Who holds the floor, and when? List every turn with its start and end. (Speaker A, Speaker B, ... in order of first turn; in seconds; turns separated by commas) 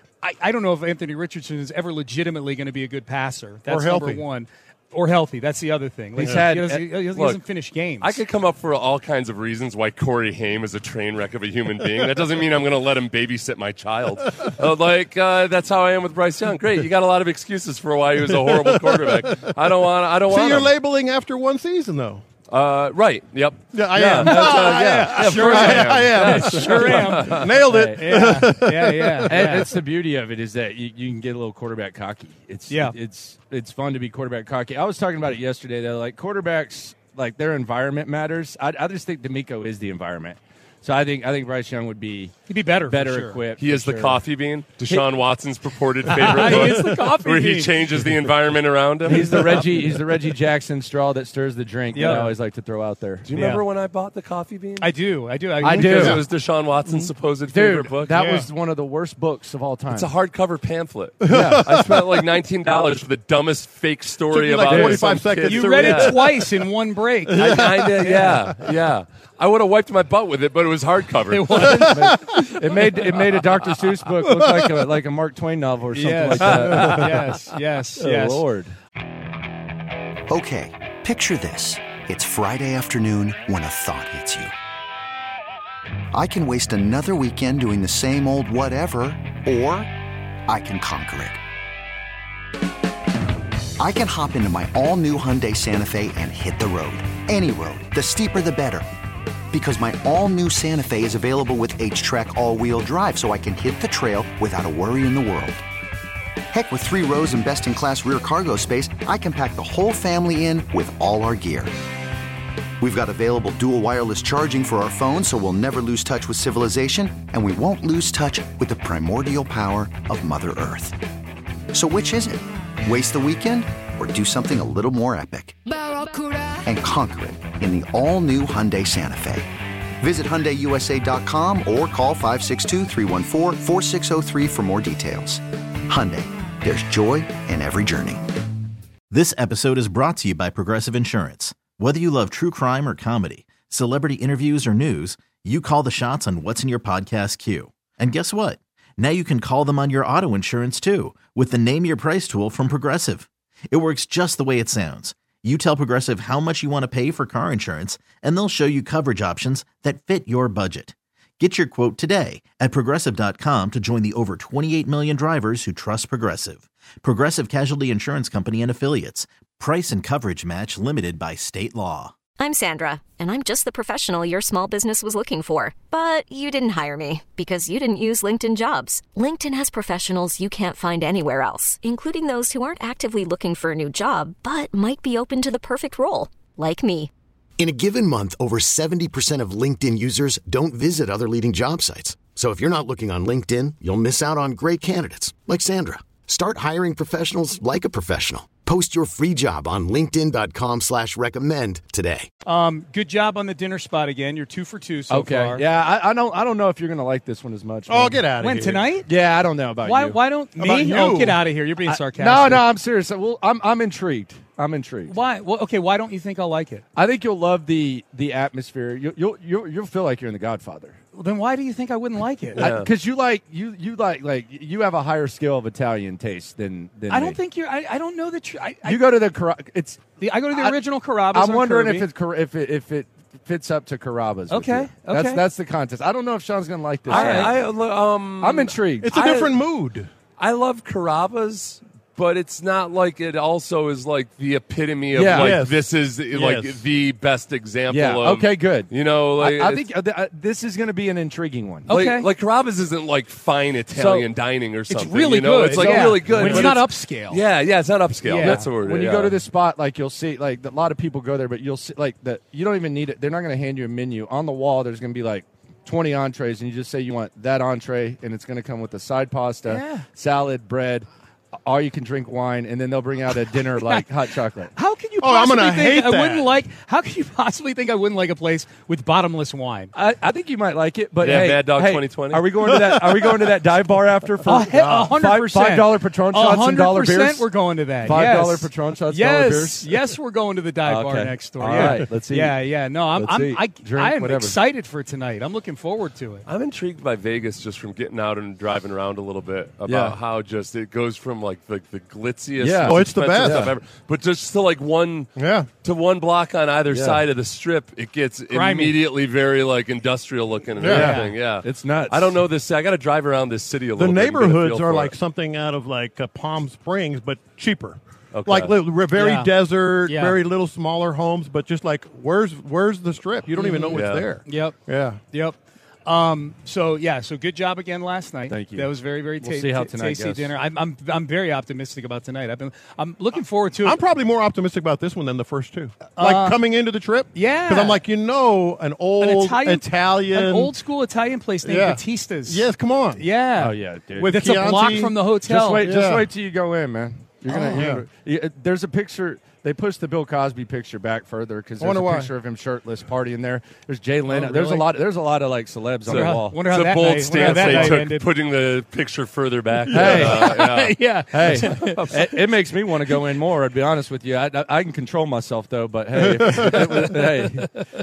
Speaker A: 0.2-8.2, Speaker B: 3.7-4.2, Speaker C: 6.2-7.0, Speaker D: 7.1-7.4, Speaker D: 8.0-20.7, Speaker B: 18.3-19.4, Speaker B: 20.3-22.2, Speaker D: 22.5-27.5, Speaker B: 23.7-29.7, Speaker A: 24.2-29.8, Speaker C: 27.5-28.4, Speaker C: 29.3-44.2, Speaker A: 32.7-33.0, Speaker A: 42.5-43.4, Speaker D: 43.6-50.0, Speaker A: 46.1-48.0, Speaker C: 49.0-53.6, Speaker A: 51.9-52.3, Speaker D: 53.2-54.9, Speaker A: 54.8-56.2, Speaker C: 55.6-56.2, Speaker D: 55.9-58.2, Speaker C: 57.5-60.1, Speaker A: 58.1-58.5, Speaker D: 59.9-66.2, Speaker B: 61.2-62.2, Speaker C: 61.3-61.6, Speaker B: 64.3-66.6, Speaker C: 64.7-65.1, Speaker A: 65.5-68.4, Speaker B: 67.3-68.7, Speaker D: 67.4-71.9, Speaker A: 71.3-72.4, Speaker B: 71.7-72.4, Speaker C: 71.9-77.4, Speaker B: 74.2-74.9, Speaker A: 75.9-78.5, Speaker B: 76.7-77.2, Speaker C: 78.0-78.7, Speaker E: 80.3-84.5, Speaker E: 86.1-89.9, Speaker E: 90.5-91.4, Speaker E: 93.8-98.8, Speaker E: 99.5-105.6, Speaker E: 106.5-111.7, Speaker E: 112.8-121.0, Speaker E: 121.7-125.6, Speaker E: 126.7-129.5, Speaker E: 130.0-138.2, Speaker F: 139.1-172.1, Speaker G: 172.4-187.1, Speaker H: 187.6-200.5, Speaker E: 196.1-198.9, Speaker E: 199.8-202.2, Speaker A: 202.5-205.6, Speaker C: 205.1-208.2, Speaker B: 207.9-208.9, Speaker A: 208.4-209.1, Speaker C: 209.0-210.4, Speaker A: 209.8-212.7, Speaker B: 210.5-211.4, Speaker C: 211.8-215.2, Speaker A: 215.1-216.8, Speaker C: 216.9-221.0, Speaker A: 221.1-222.7, Speaker D: 222.6-222.9, Speaker C: 222.6-227.4, Speaker A: 227.1-229.1, Speaker C: 228.8-237.7, Speaker A: 230.2-232.1, Speaker A: 234.5-235.4, Speaker A: 237.1-237.6, Speaker D: 237.1-239.6, Speaker C: 238.4-239.1, Speaker B: 239.0-240.1, Speaker D: 240.4-249.9, Speaker C: 245.2-245.6, Speaker B: 245.3-246.8, Speaker C: 247.9-251.9, Speaker A: 251.9-252.3, Speaker D: 251.9-259.4, Speaker C: 253.9-254.3, Speaker A: 254.9-257.4, Speaker C: 255.7-256.8, Speaker A: 258.2-258.6, Speaker C: 258.4-271.1, Speaker A: 269.7-270.1, Speaker C: 271.6-274.7, Speaker A: 273.7-274.1, Speaker A: 274.8-279.9, Speaker B: 275.2-276.5, Speaker C: 279.9-290.2, Speaker D: 281.2-282.5, Speaker B: 282.7-283.5, Speaker A: 284.4-296.4, Speaker C: 290.9-294.6, Speaker D: 296.5-305.3, Speaker C: 299.9-300.2, Speaker C: 302.6-303.7, Speaker B: 302.9-303.7, Speaker B: 305.4-305.7, Speaker D: 305.8-315.1, Speaker C: 306.9-307.2, Speaker A: 308.5-309.0, Speaker B: 310.8-311.1, Speaker C: 310.8-312.4, Speaker A: 310.9-311.3, Speaker B: 314.0-325.2, Speaker D: 318.3-318.7, Speaker A: 319.1-319.5, Speaker A: 320.1-320.4, Speaker A: 323.6-334.0, Speaker D: 323.9-324.3, Speaker C: 328.5-330.5, Speaker B: 333.8-340.7, Speaker A: 336.1-336.6, Speaker A: 337.3-338.0, Speaker A: 339.2-345.9, Speaker B: 341.6-343.2, Speaker C: 343.6-344.4, Speaker B: 344.2-345.1, Speaker C: 345.3-356.6, Speaker B: 345.8-346.3, Speaker B: 347.5-348.0, Speaker B: 351.8-352.3, Speaker A: 354.3-354.9, Speaker D: 356.1-362.2, Speaker A: 356.1-358.3, Speaker C: 357.4-358.0, Speaker C: 359.9-360.6, Speaker A: 360.0-362.1, Speaker C: 361.3-367.9, Speaker B: 366.2-367.1